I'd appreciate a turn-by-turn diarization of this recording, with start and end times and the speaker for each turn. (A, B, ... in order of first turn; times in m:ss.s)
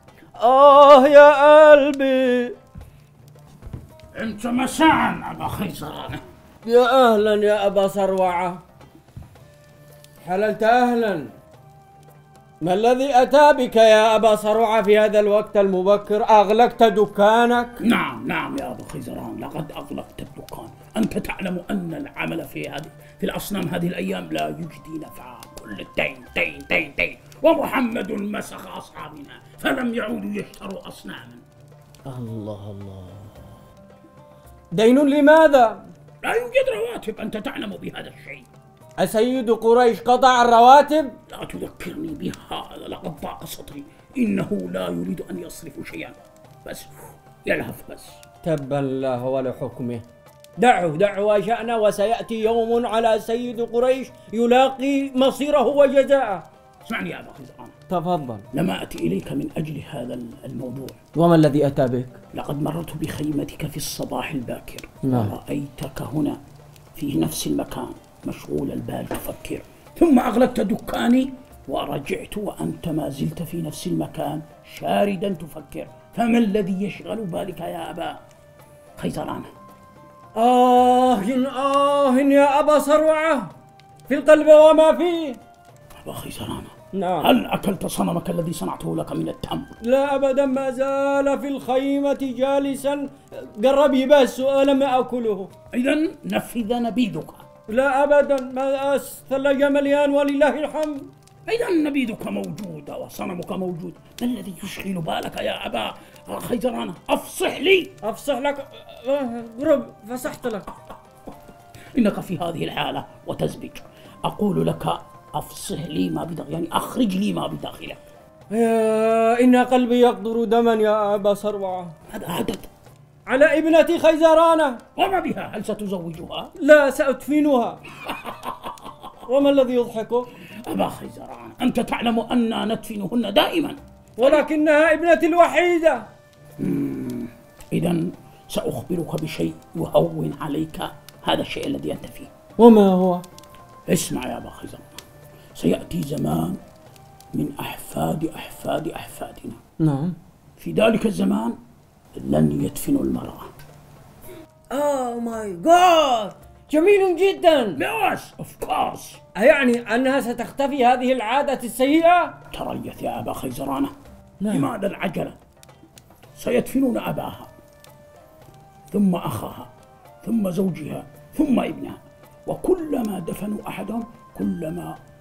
0:00.4-0:02.5 A
0:04.1-0:06.2 B
0:06.6-0:08.6 A
0:10.2-0:11.3 A
0:12.6-0:17.8 A
0:17.8-0:31.4 B
0:32.1-0:33.4 A
0:34.7-0:35.9 A
0:36.2-0:38.5 B
0:39.0-0:41.1 A
0:41.3-0:48.2 B
0:48.4-0:50.0 A
0:50.6-0:56.4 A
0:56.8-0:57.7 B
0:57.9-0:58.4 A
0:58.5-1:01.0 B
1:01.1-1:02.2 A
1:02.3-1:06.4 B
1:05.0-1:05.3 A
1:06.9-1:18.2 B
1:19.0-1:19.5 B
1:20.3-1:23.5 A
1:24.1-1:25.4 A
1:26.0-1:29.7 B
1:26.9-1:27.3 A
1:29.8-1:35.5 A
1:35.7-1:37.4 B
1:37.7-1:41.1 A
1:41.5-1:48.0 B
1:48.0-1:50.7 A
1:51.9-1:58.0 B
1:58.5-2:01.9 A
2:02.1-2:02.7 B
2:03.3-2:04.8 A
2:05.0-2:06.5 B
2:06.6-2:07.8 A
2:08.0-2:08.7 B
2:09.2-2:10.3 A
2:10.6-2:14.4 B
2:14.2-2:16.0 A
2:16.6-2:22.3 B
2:22.6-2:23.2 A
2:23.9-2:25.0 B
2:25.6-2:26.6 B
2:27.3-2:29.6 B
2:29.8-2:30.2 A
2:30.6-2:31.6 B
2:32.1-2:33.5 B
2:34.7-2:37.8 A
2:37.7-2:39.2 B
2:39.3-2:42.4 A
2:42.5-2:43.9 B
2:44.4-2:44.7 A
2:44.5-2:45.4 B
2:46.4-2:47.5 B
2:48.9-2:49.7 B
2:50.2-2:55.0 B